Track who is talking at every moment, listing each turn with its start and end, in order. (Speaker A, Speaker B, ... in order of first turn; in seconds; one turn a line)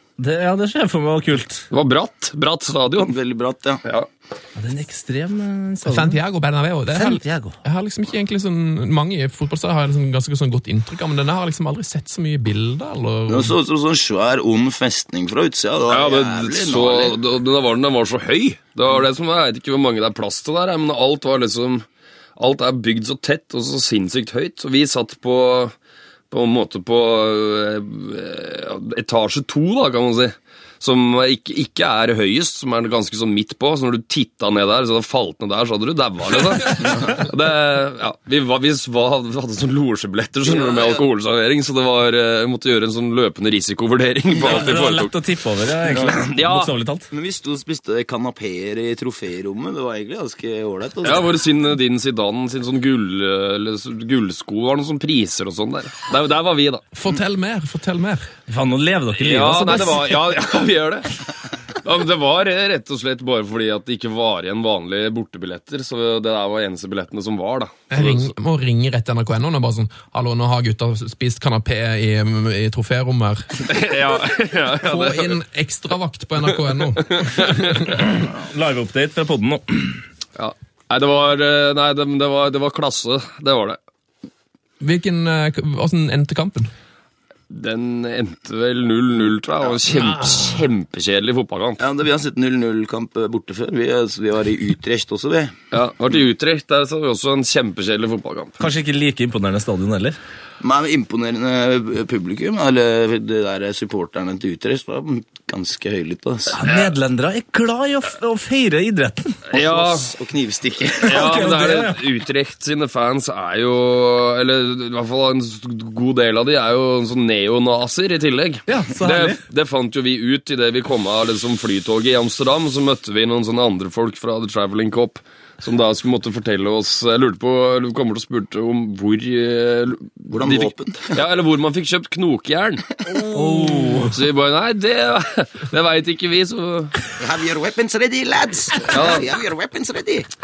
Speaker A: 0.2-1.6
Speaker B: 1.7-3.2
Speaker C: 3.0-3.8
Speaker A: 4.5-6.2
Speaker D: 5.9-13.5
Speaker A: 6.9-7.6
Speaker C: 13.3-17.2
Speaker B: 15.9-21.8
Speaker B: 22.4-25.7
Speaker B: 26.3-45.1
Speaker C: 36.8-37.1
Speaker C: 40.4-41.0
Speaker A: 44.4-47.1
Speaker B: 45.9-46.7
Speaker C: 47.1-51.3
Speaker B: 51.0-56.8
Speaker D: 56.9-58.3
Speaker A: 58.5-60.0
Speaker B: 59.2-61.1
Speaker B: 61.8-68.3
Speaker D: 67.9-73.6
Speaker B: 73.6-75.4
Speaker D: 74.8-78.1
Speaker B: 77.0-77.6
Speaker A: 78.0-80.0
Speaker B: 80.4-83.8
Speaker D: 84.8-86.7
Speaker B: 87.5-91.8
Speaker C: 91.8-95.5
Speaker B: 95.7-98.6
Speaker A: 98.6-100.2
Speaker C: 100.6-106.6
Speaker A: 106.5-109.4
Speaker B: 109.5-110.1
Speaker C: 109.5-111.3
Speaker A: 111.0-112.0
Speaker B: 111.0-133.5
Speaker A: 118.7-119.4
Speaker C: 130.3-131.2
Speaker A: 133.3-134.2
Speaker B: 134.1-136.9
Speaker C: 137.2-140.3
Speaker B: 138.9-139.3